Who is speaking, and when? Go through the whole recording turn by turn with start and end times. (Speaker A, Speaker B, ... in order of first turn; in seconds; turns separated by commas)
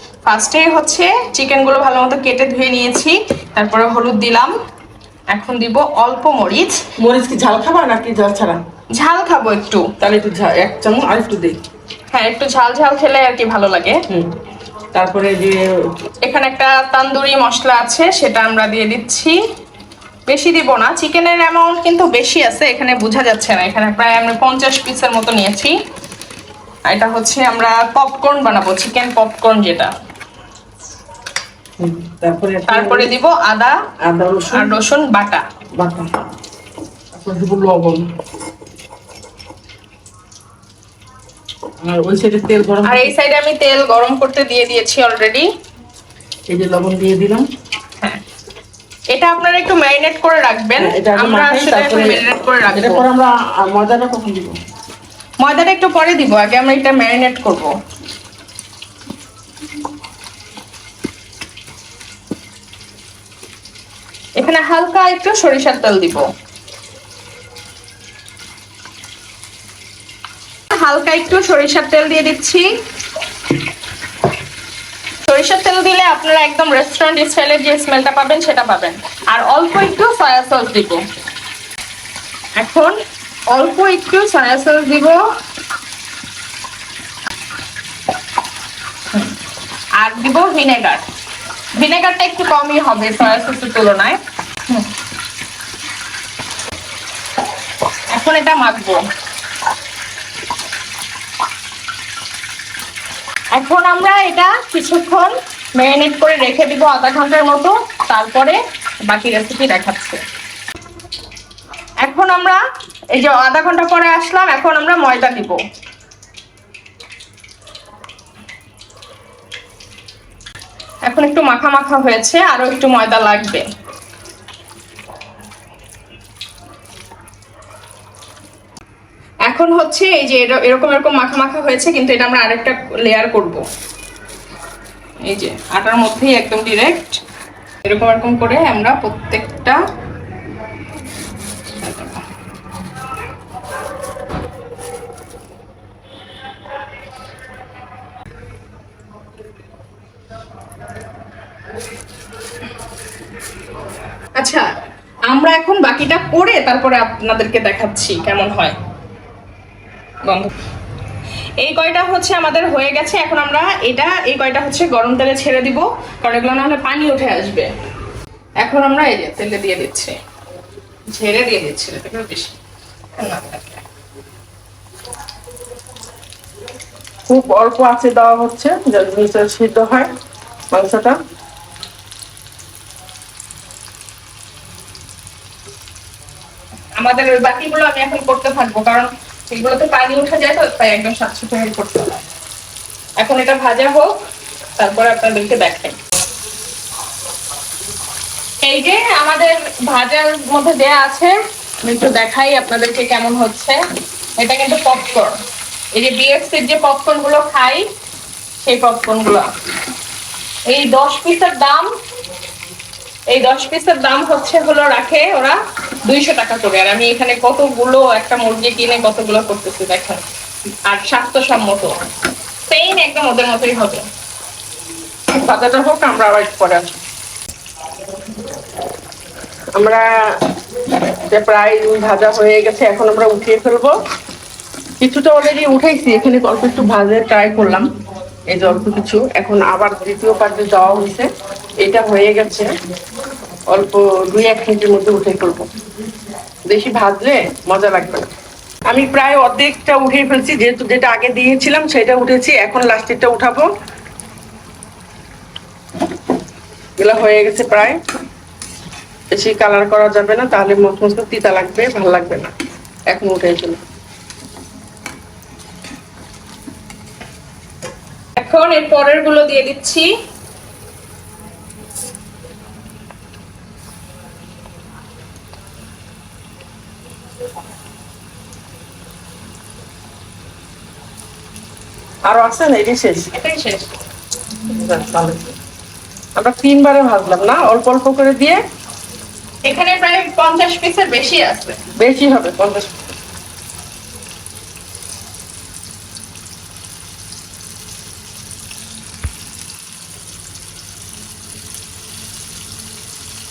Speaker A: 0.2-4.5, Speaker A: 5.3-6.8, Speaker B: 7.0-8.6, Speaker A: 8.9-9.9, Speaker B: 10.0-11.6, Speaker A: 12.1-14.0, Speaker B: 14.1-14.3, Speaker B: 14.9-15.6, Speaker A: 16.2-19.4, Speaker A: 20.3-25.7, Speaker A: 26.9-29.9, Speaker B: 31.8-33.1, Speaker A: 32.7-33.8, Speaker B: 34.0-34.7, Speaker A: 34.5-35.4, Speaker B: 35.8-36.1, Speaker B: 37.1-38.1, Speaker B: 41.8-43.1, Speaker A: 42.8-45.5, Speaker B: 46.5-47.5, Speaker A: 49.1-53.0, Speaker B: 50.8-54.6, Speaker A: 55.4-57.7, Speaker A: 64.4-66.2, Speaker A: 70.7-72.7, Speaker A: 75.3-81.0, Speaker A: 82.5-82.9, Speaker A: 83.5-85.2, Speaker A: 90.0-91.0, Speaker A: 91.8-94.9, Speaker A: 98.1-99.0, Speaker A: 103.5-110.2, Speaker A: 112.0-112.6, Speaker A: 113.1-115.6, Speaker A: 121.0-123.6, Speaker A: 129.4-133.6, Speaker A: 135.2-137.2, Speaker A: 137.8-139.8, Speaker A: 141.7-142.2, Speaker A: 154.4-154.6, Speaker A: 155.3-158.7, Speaker A: 160.2-160.5, Speaker A: 161.6-167.7, Speaker A: 168.6-170.1, Speaker A: 171.1-172.6, Speaker A: 173.2-173.8, Speaker B: 177.3-180.1, Speaker B: 180.7-181.2, Speaker A: 187.0-192.2, Speaker A: 193.2-194.1, Speaker A: 194.8-196.0, Speaker A: 198.6-203.8, Speaker A: 204.4-205.3, Speaker A: 205.9-207.8, Speaker A: 208.6-209.5, Speaker A: 210.7-211.9, Speaker A: 213.3-220.2, Speaker A: 220.9-221.9, Speaker A: 222.7-224.0, Speaker B: 225.3-226.9, Speaker B: 229.7-230.1, Speaker B: 231.3-233.9, Speaker B: 235.0-237.9, Speaker B: 238.5-241.3, Speaker B: 241.8-242.7, Speaker B: 243.7-245.7, Speaker B: 246.7-248.3, Speaker B: 248.9-253.7, Speaker B: 257.0-258.0, Speaker B: 259.3-262.5, Speaker B: 263.1-263.8, Speaker A: 268.4-270.1, Speaker B: 282.2-283.3, Speaker A: 283.3-283.9, Speaker B: 284.6-285.5, Speaker B: 286.4-288.6, Speaker A: 289.6-291.8, Speaker B: 292.0-292.9